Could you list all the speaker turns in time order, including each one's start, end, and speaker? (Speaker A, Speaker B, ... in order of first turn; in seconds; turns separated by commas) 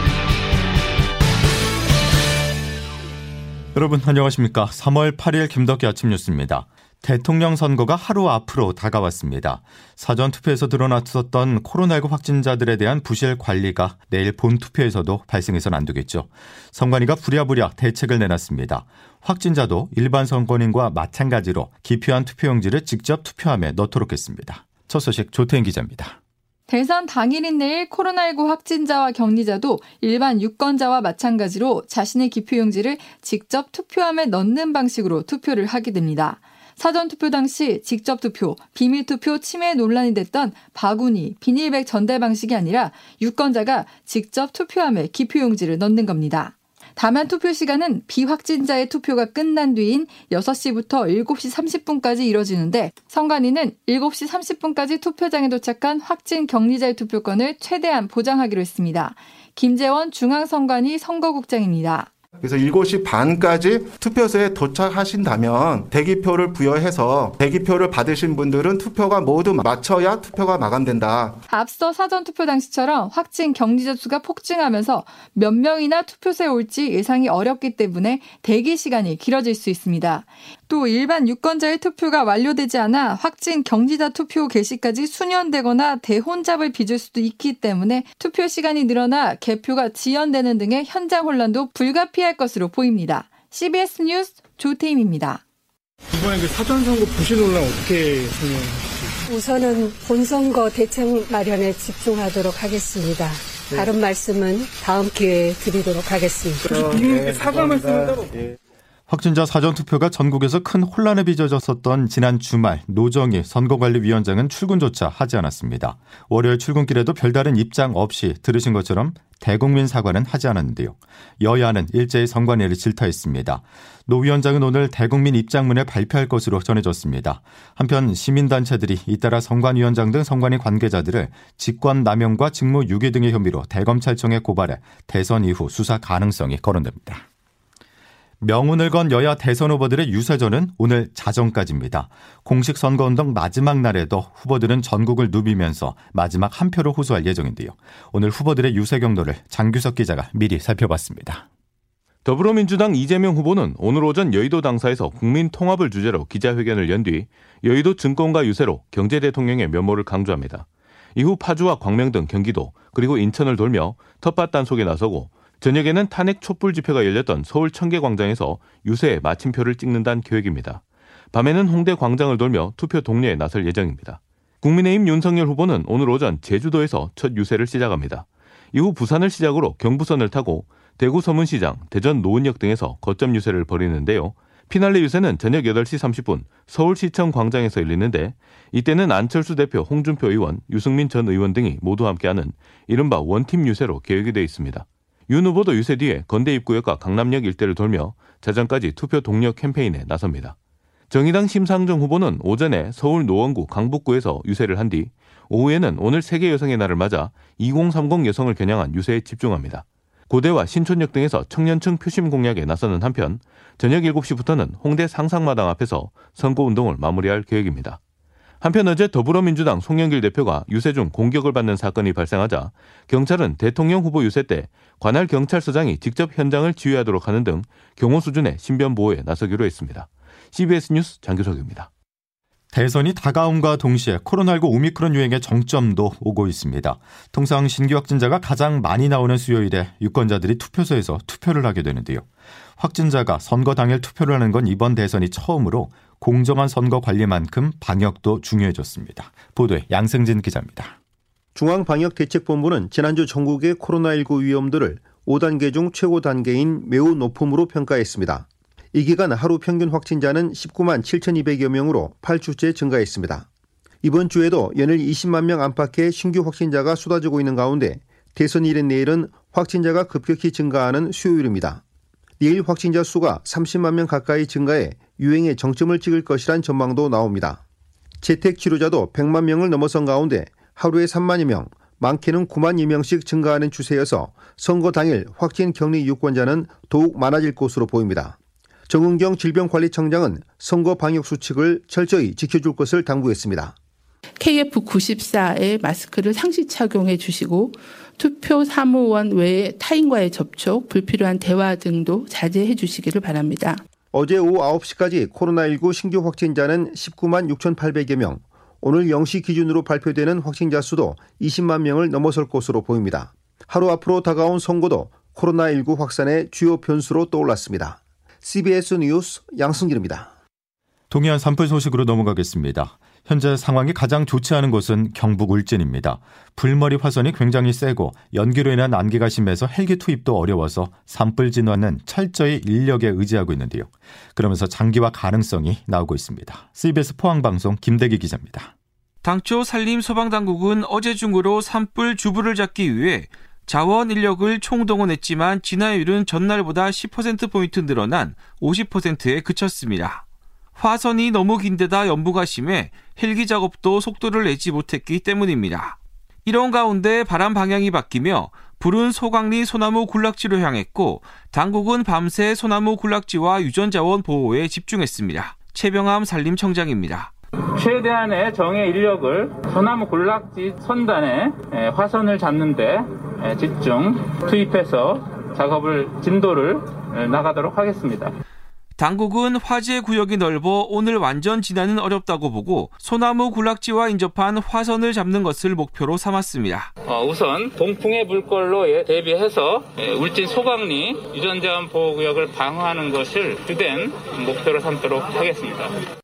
Speaker A: 3.8-26.2, Speaker B: 26.7-62.1, Speaker C: 62.4-71.3, Speaker B: 71.5-95.4, Speaker D: 96.3-98.6, Speaker D: 99.3-100.0, Speaker E: 99.3-106.7, Speaker D: 103.7-104.3, Speaker D: 105.2-108.2, Speaker F: 107.4-107.8, Speaker A: 109.1-137.2, Speaker A: 138.4-151.4, Speaker G: 152.2-160.7, Speaker G: 161.2-170.8, Speaker G: 171.3-200.6, Speaker G: 201.1-218.0, Speaker G: 218.6-231.9, Speaker A: 232.7-242.2, Speaker A: 242.8-250.9, Speaker H: 251.6-263.4, Speaker H: 264.0-271.8, Speaker H: 272.4-277.6, Speaker H: 278.2-288.4, Speaker H: 288.9-293.7, Speaker F: 294.4-303.8, Speaker H: 304.1-320.3, Speaker A: 321.1-338.7, Speaker I: 339.2-350.2, Speaker I: 350.8-367.3, Speaker J: 367.8-378.3, Speaker I: 379.0-386.9, Speaker J: 387.0-395.9